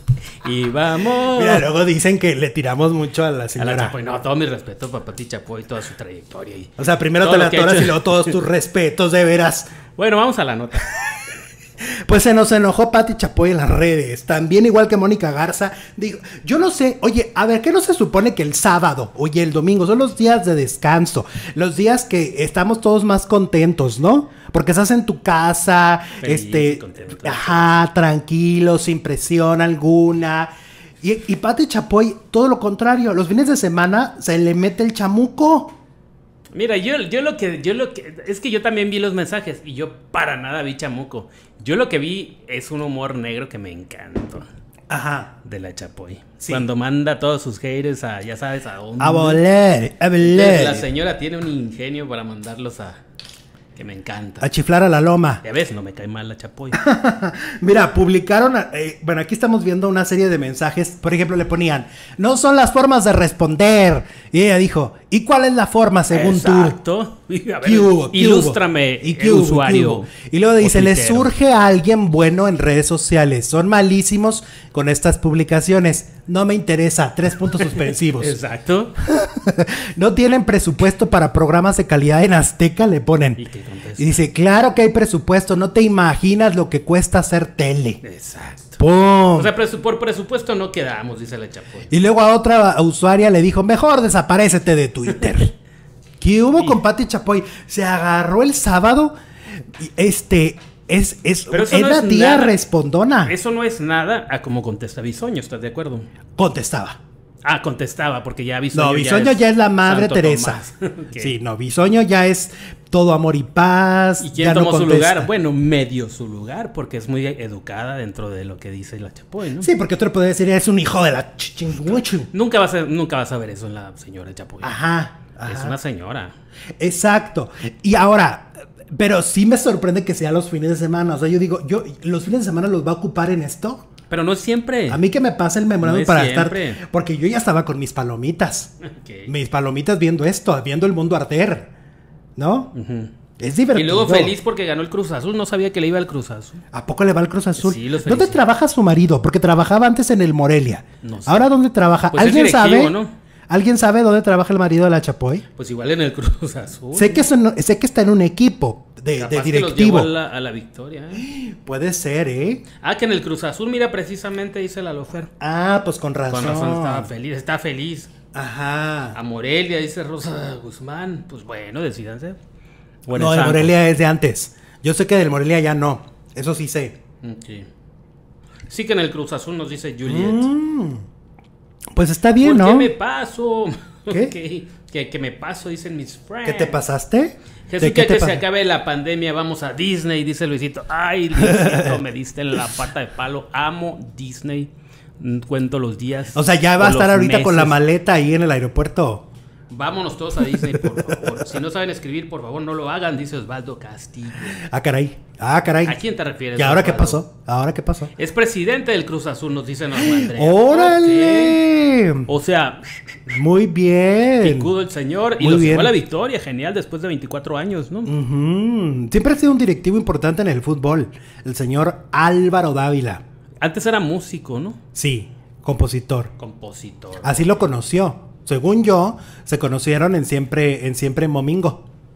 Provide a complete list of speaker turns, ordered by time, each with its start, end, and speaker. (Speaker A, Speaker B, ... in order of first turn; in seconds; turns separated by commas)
Speaker A: 0.4-1.7, Speaker B: 1.1-3.9, Speaker A: 3.6-8.4, Speaker B: 6.8-9.7, Speaker A: 9.9-11.4, Speaker B: 12.1-30.5, Speaker A: 26.2-27.8, Speaker B: 31.0-35.7, Speaker A: 36.5-44.5, Speaker B: 44.9-45.3, Speaker A: 45.4-49.4, Speaker B: 49.0-50.9, Speaker A: 50.2-53.0, Speaker A: 53.7-54.5, Speaker B: 54.4-55.4, Speaker A: 55.4-56.8, Speaker B: 56.7-66.8, Speaker A: 66.1-71.3, Speaker B: 67.6-78.3, Speaker A: 77.6-79.0, Speaker B: 79.0-83.4, Speaker A: 83.4-84.2, Speaker B: 84.0-88.0, Speaker A: 88.0-88.8, Speaker B: 88.8-89.5, Speaker A: 89.3-91.9, Speaker B: 91.9-95.5, Speaker B: 96.2-99.1, Speaker B: 99.8-103.3, Speaker A: 101.5-102.6, Speaker A: 103.2-106.1, Speaker B: 106.4-107.0, Speaker A: 107.4-111.3, Speaker B: 108.7-110.6, Speaker B: 111.2-115.3, Speaker A: 114.2-119.7, Speaker B: 119.6-122.3, Speaker A: 121.9-124.8, Speaker B: 124.6-125.7, Speaker A: 125.4-126.3, Speaker B: 126.8-133.8, Speaker A: 134.1-135.0, Speaker B: 134.9-138.7, Speaker A: 135.8-136.8, Speaker A: 138.9-139.3, Speaker B: 139.2-141.7, Speaker B: 142.4-142.7, Speaker A: 142.7-143.1, Speaker B: 143.4-144.3, Speaker A: 143.7-146.6, Speaker B: 146.7-152.9, Speaker A: 147.6-148.4, Speaker A: 151.0-151.5, Speaker A: 152.1-153.1, Speaker B: 153.5-155.4, Speaker A: 155.6-157.3, Speaker B: 156.9-160.1, Speaker A: 159.2-161.2, Speaker B: 161.1-162.6, Speaker A: 162.8-165.3, Speaker B: 165.4-167.1, Speaker A: 166.3-168.1, Speaker B: 168.3-169.2, Speaker A: 169.1-172.4, Speaker A: 173.1-173.7, Speaker B: 173.1-176.9, Speaker A: 177.2-177.7, Speaker A: 178.7-180.5, Speaker B: 180.1-181.0, Speaker B: 181.9-182.9, Speaker A: 182.4-186.8, Speaker B: 186.4-188.4, Speaker A: 187.7-197.8, Speaker B: 191.4-192.0, Speaker B: 196.3-199.2, Speaker A: 199.7-204.6, Speaker B: 200.5-201.5, Speaker B: 204.6-206.0, Speaker A: 205.8-207.2, Speaker B: 206.6-208.1, Speaker A: 208.2-211.6, Speaker B: 209.9-212.3, Speaker A: 212.3-212.9, Speaker B: 213.3-214.7, Speaker A: 214.4-218.1, Speaker B: 215.4-215.9, Speaker B: 218.1-223.2, Speaker A: 223.6-224.8, Speaker B: 224.9-226.3, Speaker A: 226.4-227.6, Speaker B: 227.2-231.8